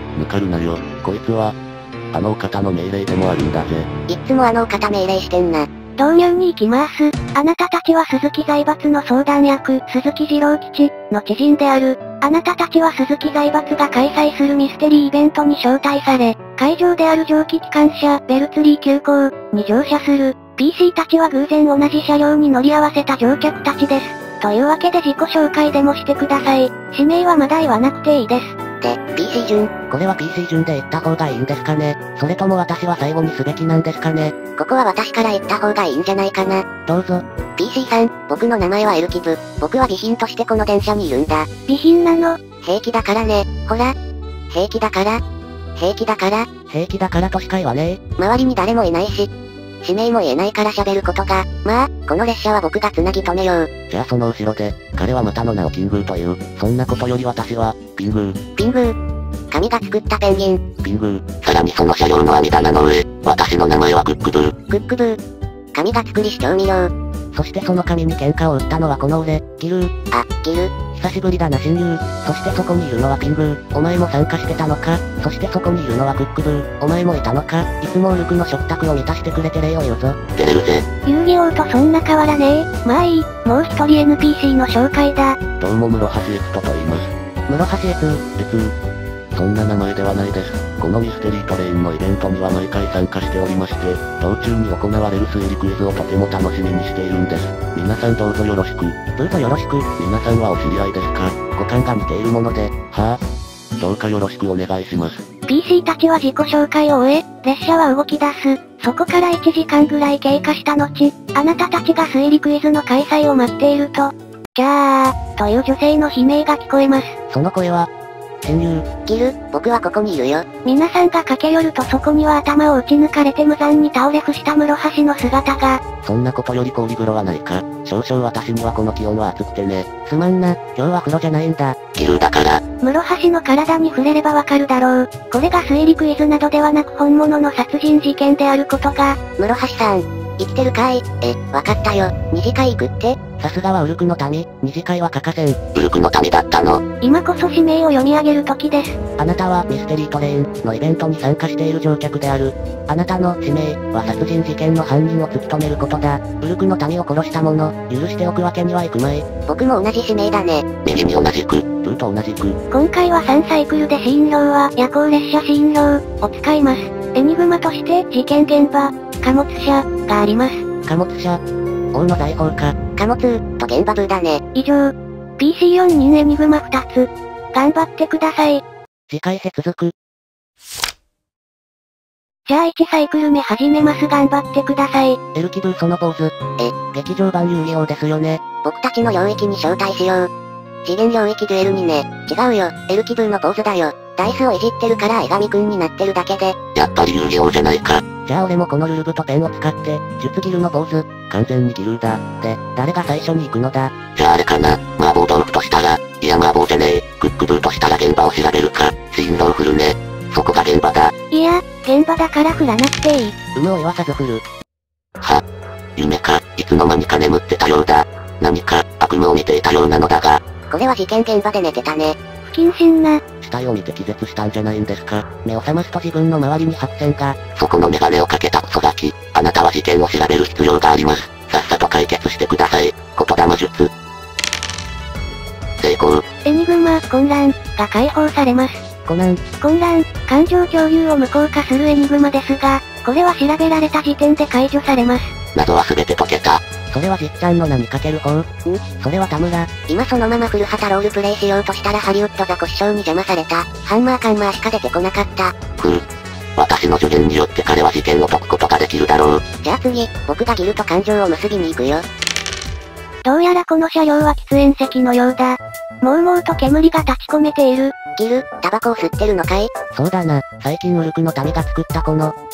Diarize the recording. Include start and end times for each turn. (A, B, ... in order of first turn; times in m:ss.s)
0:00.2-0:01.6 A
0:02.1-0:03.9 A
0:04.1-0:05.7 B
0:06.0-0:28.6 C
0:28.8-0:29.7 B
0:29.9-0:34.4 A
0:34.6-0:36.6 B
0:36.8-0:37.2 A
0:37.6-0:41.5 B
0:41.7-0:42.4 C
0:42.6-0:43.9 B
0:44.5-0:45.2 B
0:45.8-0:46.5 B
0:46.7-0:48.0 A
0:48.2-0:49.3 B
0:49.8-0:53.7 B
0:53.9-0:58.4 A
0:58.6-0:58.9 B
0:59.5-1:00.6 B
1:00.8-1:04.6 A
1:04.7-1:05.2 B
1:05.7-1:06.9 B
1:07.3-1:09.9 A
1:10.1-1:10.7 B
1:10.9-1:20.8 A
1:21.0-1:25.4 C
1:25.6-1:28.7 A
1:29.3-1:43.2 A
1:43.8-1:45.2 A
1:45.5-1:57.2 C
1:57.3-1:57.9 A
1:58.4-1:58.9 A
1:59.0-2:00.4 B
2:00.6-2:05.8 C
2:06.0-2:12.6 A
2:12.8-2:19.2 C
2:19.4-2:23.2 B
2:23.4-2:26.8 A
2:27.0-2:29.0 C
2:29.2-2:39.3 A
2:39.5-2:40.6 B
2:40.8-2:42.6 A
2:42.7-2:50.6 C
2:50.9-2:51.4 A
2:51.9-2:52.8 A
2:53.0-2:54.4 B
2:54.5-2:58.6 C
2:59.1-2:59.9 A
3:02.5-3:05.2 C
3:05.3-3:08.4 A
3:08.6-3:10.3 B
3:10.8-3:16.6 B
3:16.7-3:31.1 A
3:31.3-3:33.4 C
3:33.6-3:34.4 A
3:36.0-3:40.4 A
3:40.7-3:42.2 B
3:42.4-3:43.2 C
3:43.4-3:53.9 A
3:55.8-3:56.2 A
3:56.4-3:58.8 C
3:59.0-3:59.4 A
3:59.6-4:05.3 C
4:05.5-4:08.5 A
4:08.6-4:08.9 B
4:09.0-4:09.8 A
4:09.9-4:15.6 B
4:15.8-4:16.0 A
4:16.6-4:19.4 A
4:19.6-4:22.0 B
4:23.2-4:27.9 C
4:28.2-4:29.7 B
4:29.9-4:32.3 A